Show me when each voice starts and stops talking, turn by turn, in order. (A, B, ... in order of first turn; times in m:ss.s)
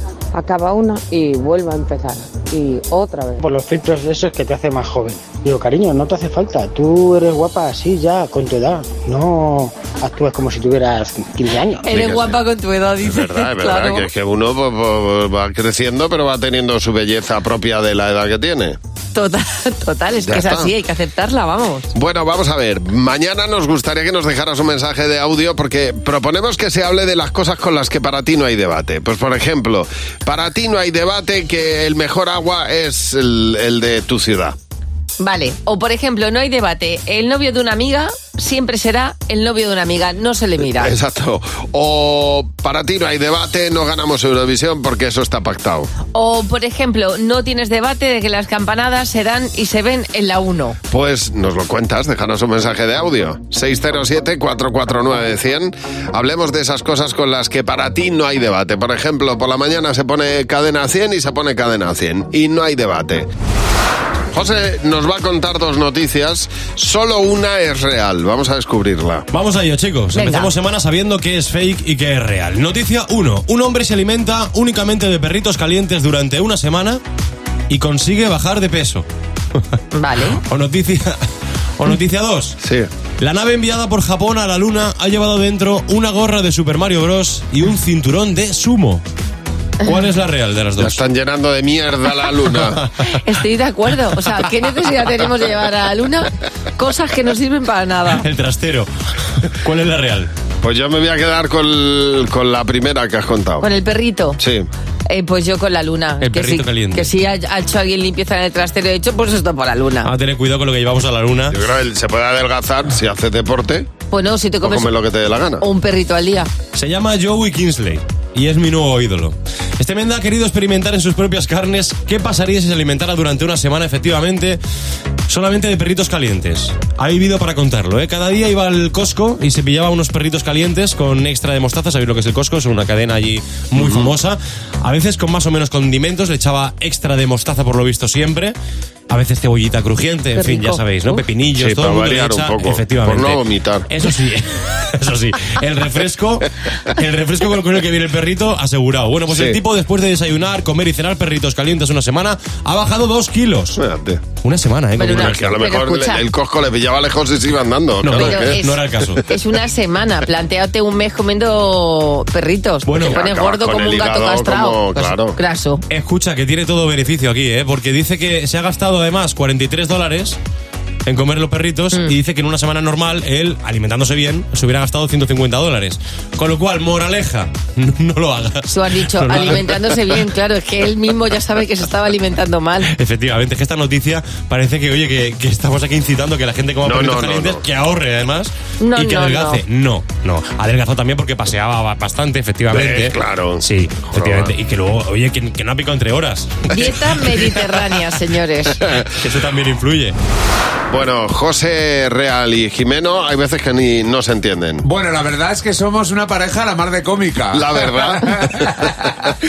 0:00.4-0:03.4 A
0:03.4-0:11.9 B
0:11.8-0:14.1 C
0:11.9-0:12.4 D
0:13.0-0:18.8 D
0:19.2-0:21.9 C
0:20.2-0:20.7 D
0:21.9-0:34.6 D
0:35.2-0:40.9 C
0:40.6-0:45.9 D
0:46.1-0:50.8 C
0:50.9-1:03.3 D
1:04.3-1:09.3 D
1:09.3-1:17.0 E
1:10.2-1:10.5 C
1:17.7-1:19.1 E
1:20.0-1:20.4 C
1:20.3-1:21.2 E
1:21.8-1:22.6 E
1:22.6-1:22.9 D
1:23.2-1:29.0 E
1:29.8-1:31.0 E
1:30.8-1:32.8 D
1:33.2-1:38.2 C
1:38.2-1:38.9 E
1:39.4-1:40.3 E
1:40.6-1:43.7 D
1:43.6-1:44.4 C
1:44.4-1:44.7 D
1:45.1-1:50.1 C
1:46.2-1:47.1 E
1:50.0-1:51.6 E
1:51.5-1:53.9 D
1:54.1-1:55.0 C
1:54.6-1:55.6 D
1:55.6-1:56.5 C
1:56.7-2:04.6 E
2:05.3-2:18.6 E
2:13.8-2:14.1 D
2:19.1-2:33.8 E
2:20.4-2:20.7 C
2:21.5-2:23.9 D
2:29.3-2:29.6 D
2:33.8-2:34.2 D
2:34.3-2:35.5 E
2:35.0-2:36.2 C
2:35.1-2:38.6 D
2:38.0-2:39.2 E
2:38.2-2:45.8 C
2:42.9-2:43.2 E
2:42.9-2:45.4 D
2:45.9-2:50.4 E
2:51.1-3:00.0 E
2:58.7-3:02.9 C
3:02.9-3:16.7 E
3:06.8-3:07.6 D
3:08.8-3:09.6 C
3:12.7-3:14.5 D
3:16.7-3:18.8 C
3:19.2-3:20.2 E
3:20.9-3:24.8 D
3:24.8-3:29.1 F
3:27.5-3:28.6 D